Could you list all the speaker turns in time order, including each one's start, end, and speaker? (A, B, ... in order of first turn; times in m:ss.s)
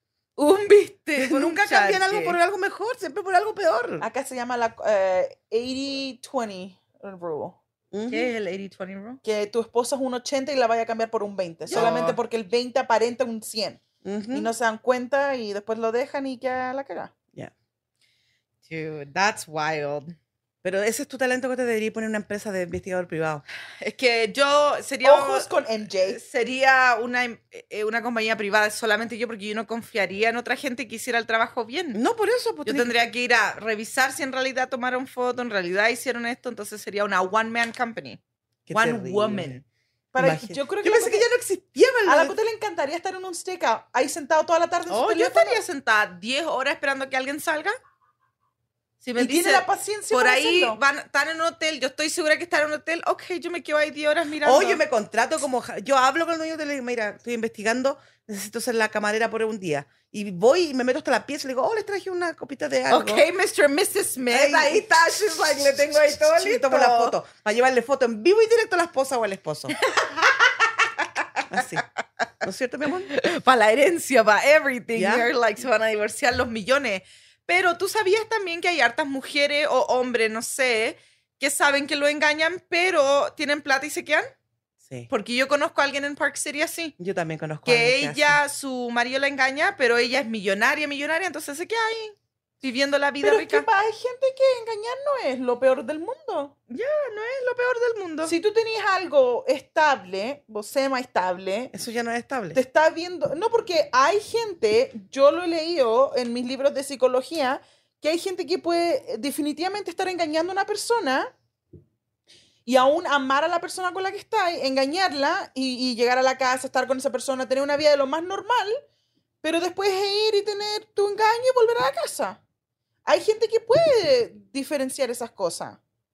0:00.4-0:02.4 A
0:01.2-0:04.0 B
0:04.0-0:07.6 C
0:07.9-0:08.3 B
0:08.1-0:09.2 A
0:09.2-0:13.8 C
0:11.7-0:12.2 A
0:11.7-0:12.0 B
0:14.0-0:14.5 B
0:14.3-0:17.1 C
0:18.7-0:20.1 A
0:20.6-0:23.4 B
0:23.8-0:25.5 A
0:25.0-0:26.2 C
0:26.1-0:32.0 A
0:31.9-0:32.9 B
0:32.6-0:38.2 A
0:38.7-0:39.5 B
0:38.7-0:39.6 A
0:40.1-0:41.2 C
0:40.2-0:42.4 B
0:42.0-0:45.6 C
0:44.9-0:47.7 A
0:49.0-0:54.8 A
0:49.2-0:50.8 C
0:54.4-1:03.2 B
1:02.9-1:07.1 A
1:04.3-1:04.8 B
1:06.0-1:09.7 B
1:09.8-1:10.4 A
1:11.0-1:11.6 A
1:11.5-1:11.8 B
1:12.4-1:13.1 B
1:13.1-1:24.3 A
1:14.9-1:15.3 B
1:24.8-1:25.1 B
1:25.1-1:26.9 A
1:27.0-1:28.4 B
1:27.6-1:33.6 A
1:33.2-1:36.5 C
1:36.7-1:38.3 A
1:38.2-1:41.7 C
1:41.7-1:42.6 B
1:42.5-1:51.3 C
1:52.6-1:58.8 C
1:59.4-2:02.4 C
2:03.0-2:05.8 C